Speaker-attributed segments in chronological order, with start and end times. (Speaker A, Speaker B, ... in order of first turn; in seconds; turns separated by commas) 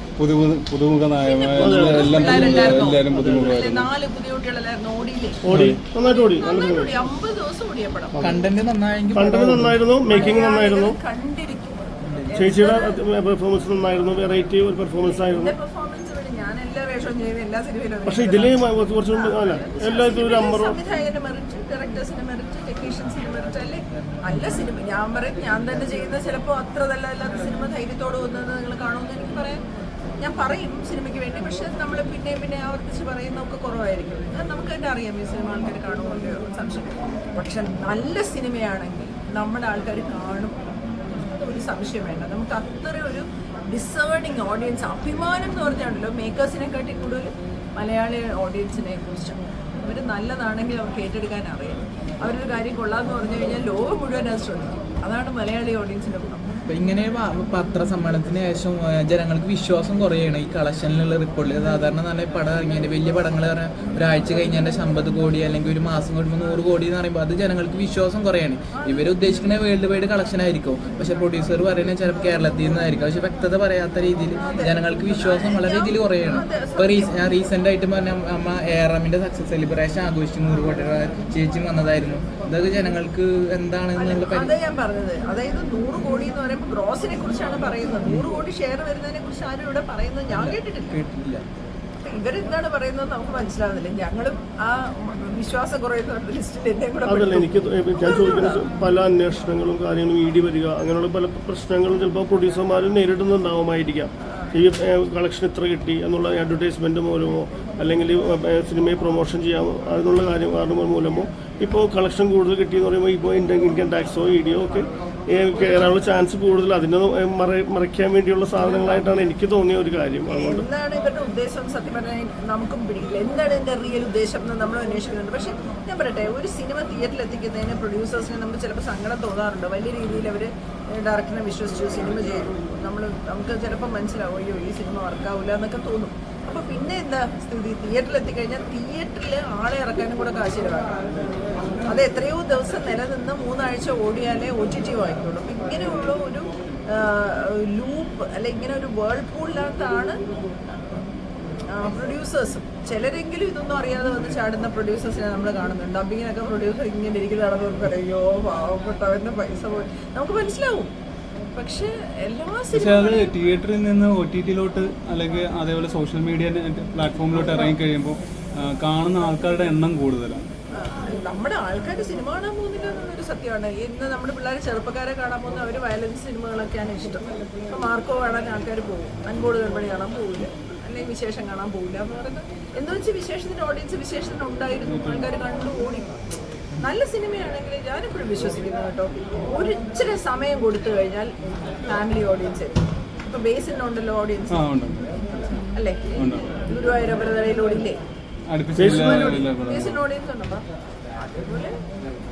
Speaker A: 0.2-3.9, Speaker B: 1.2-5.5, Speaker C: 1.6-3.5, Speaker C: 5.4-7.0, Speaker A: 5.5-5.8, Speaker B: 6.1-8.4, Speaker C: 8.2-8.4, Speaker D: 8.2-9.8, Speaker C: 9.1-11.0, Speaker B: 10.1-13.0, Speaker C: 12.4-15.5, Speaker B: 15.2-29.6, Speaker C: 18.1-20.8, Speaker B: 30.2-56.6, Speaker D: 56.7-84.5, Speaker B: 68.7-69.2, Speaker B: 74.3-77.5, Speaker B: 84.0-91.0, Speaker D: 90.3-91.4, Speaker B: 92.0-98.7, Speaker C: 97.1-120.7, Speaker B: 120.3-141.0, Speaker B: 141.9-150.2, Speaker B: 151.7-160.9, Speaker B: 161.6-163.3, Speaker A: 162.7-170.4, Speaker B: 170.8-186.2, Speaker A: 184.9-185.3, Speaker B: 186.8-191.3, Speaker B: 191.8-194.6, Speaker A: 194.5-195.0, Speaker B: 195.7-196.1, Speaker A: 196.2-196.5, Speaker B: 196.7-198.0, Speaker A: 198.5-200.0, Speaker C: 198.8-199.4, Speaker B: 198.8-200.7, Speaker B: 201.2-201.8